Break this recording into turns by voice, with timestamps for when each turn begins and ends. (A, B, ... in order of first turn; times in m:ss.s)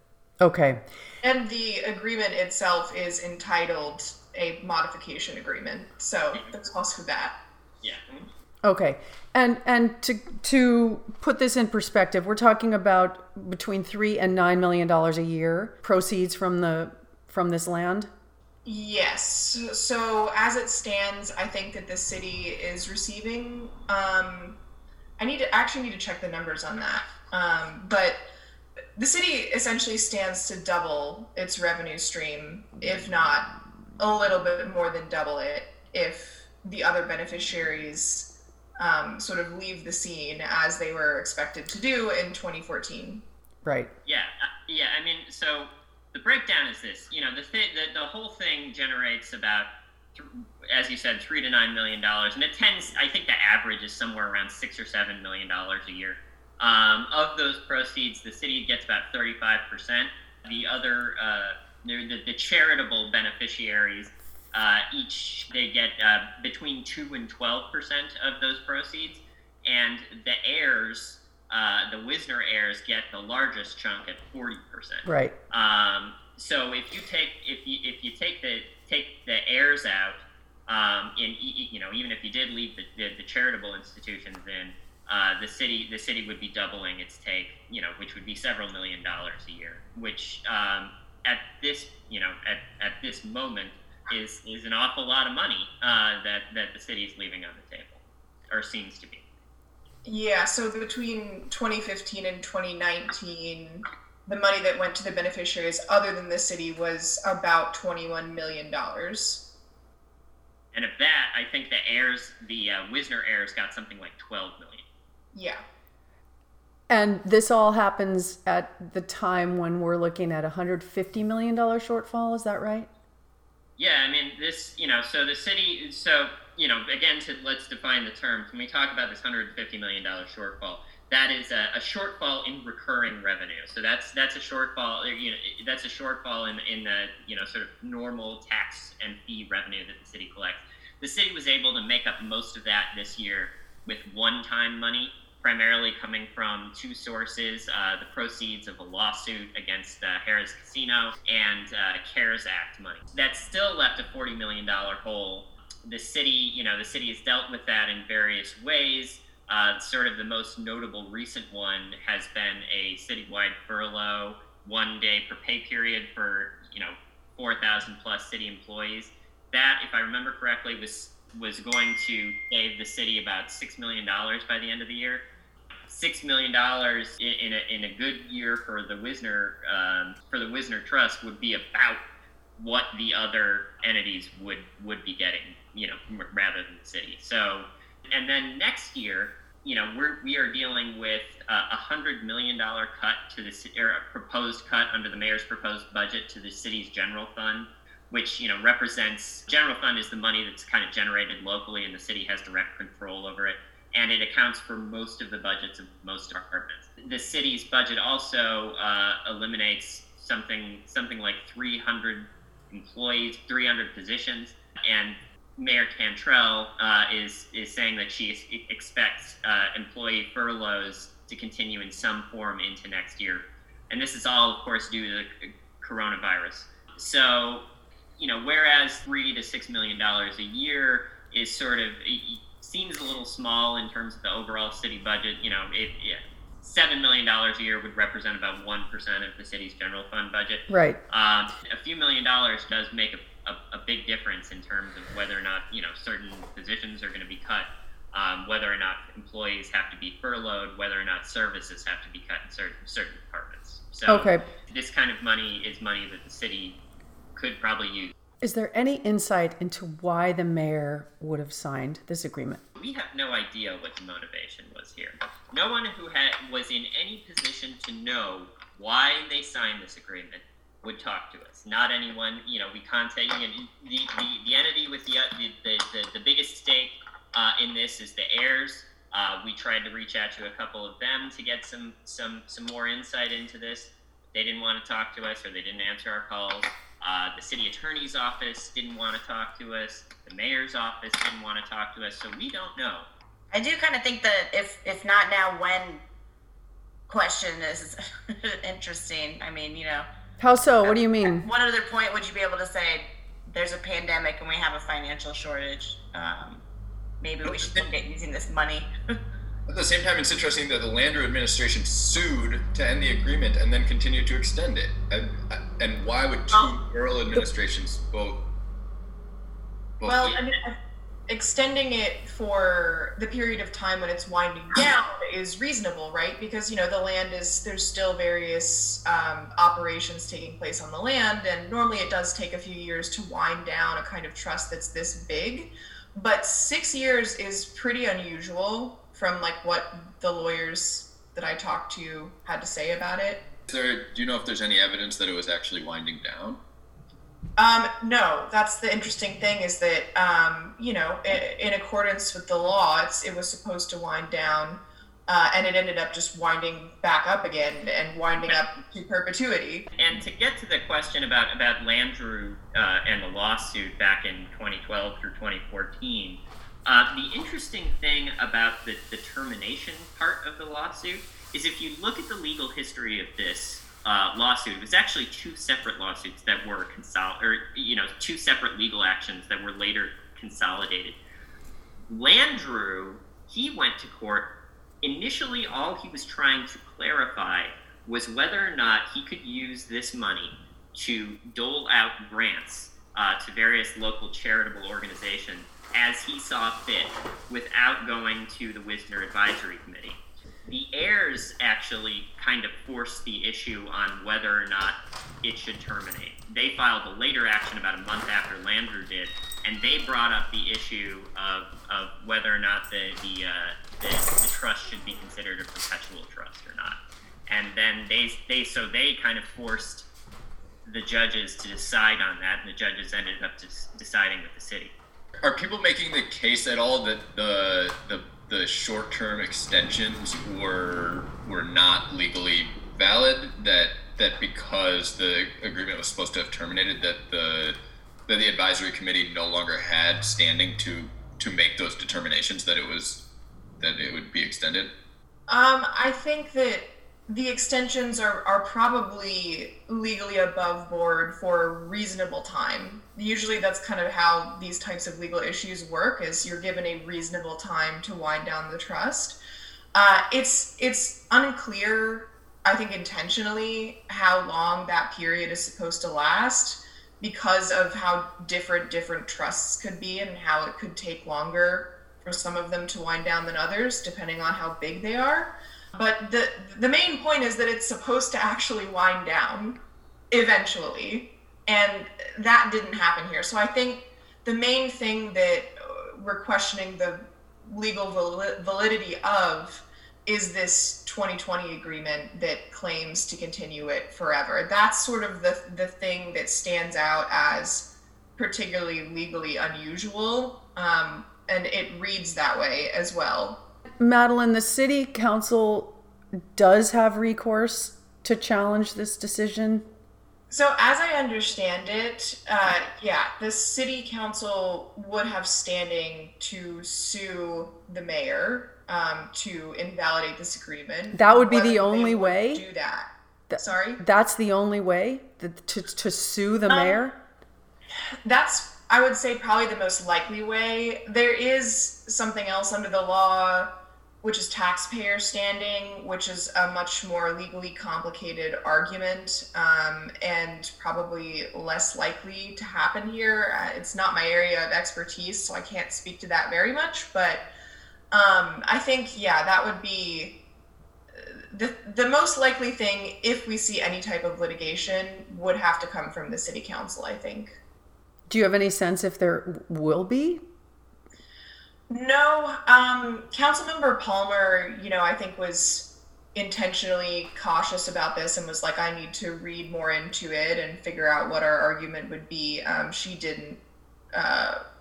0:00.4-0:00.8 A
0:01.2-0:07.4 B
0:07.8-0:08.3 C
0:08.6-0:18.1 A
0:18.6-0:24.6 B
0:25.2-0:28.2 B
0:29.0-0:43.2 B
0:43.6-0:43.9 A
0:44.0-1:39.2 C
1:15.0-1:15.3 A
1:40.0-1:49.4 B
1:50.7-1:54.8 C
1:55.3-1:55.6 B
1:56.9-2:02.9 A
2:03.8-2:55.2 C
2:55.9-3:02.0 C
3:02.6-3:47.6 C
3:48.2-4:16.8 C
4:00.7-4:01.0 A
4:14.1-4:14.4 A
4:17.4-4:18.1 C
4:18.4-4:22.6 A
4:22.7-4:53.1 C
4:53.5-4:56.0 D
4:57.1-5:00.1 D
5:00.4-5:01.4 A
5:00.8-5:06.6 D
5:07.2-5:08.9 D
5:07.4-5:07.8 E
5:09.7-5:18.4 E
5:20.0-5:20.4 E
5:20.0-5:20.8 B
5:21.3-5:43.4 B
5:43.7-5:46.6 E
5:47.6-5:59.9 B
6:00.0-6:21.2 C
6:22.1-6:24.5 C
6:25.0-7:00.1 C
7:00.8-7:05.0 C
7:05.4-7:17.8 E
7:18.3-7:23.2 E
7:23.8-7:24.9 E
7:25.5-7:39.4 B
7:39.9-7:59.8 B
8:00.3-8:23.6 B
8:24.0-8:25.9 A
8:26.5-8:29.8 A
8:30.5-8:44.0 B
8:41.1-8:42.6 A
8:43.5-8:47.2 A
8:46.7-8:47.0 B
8:48.2-8:53.7 B
8:54.2-9:07.4 B
9:08.1-9:10.4 B
9:11.2-9:17.6 B
9:18.3-9:20.4 A
9:21.9-9:33.6 B
9:34.1-9:34.6 B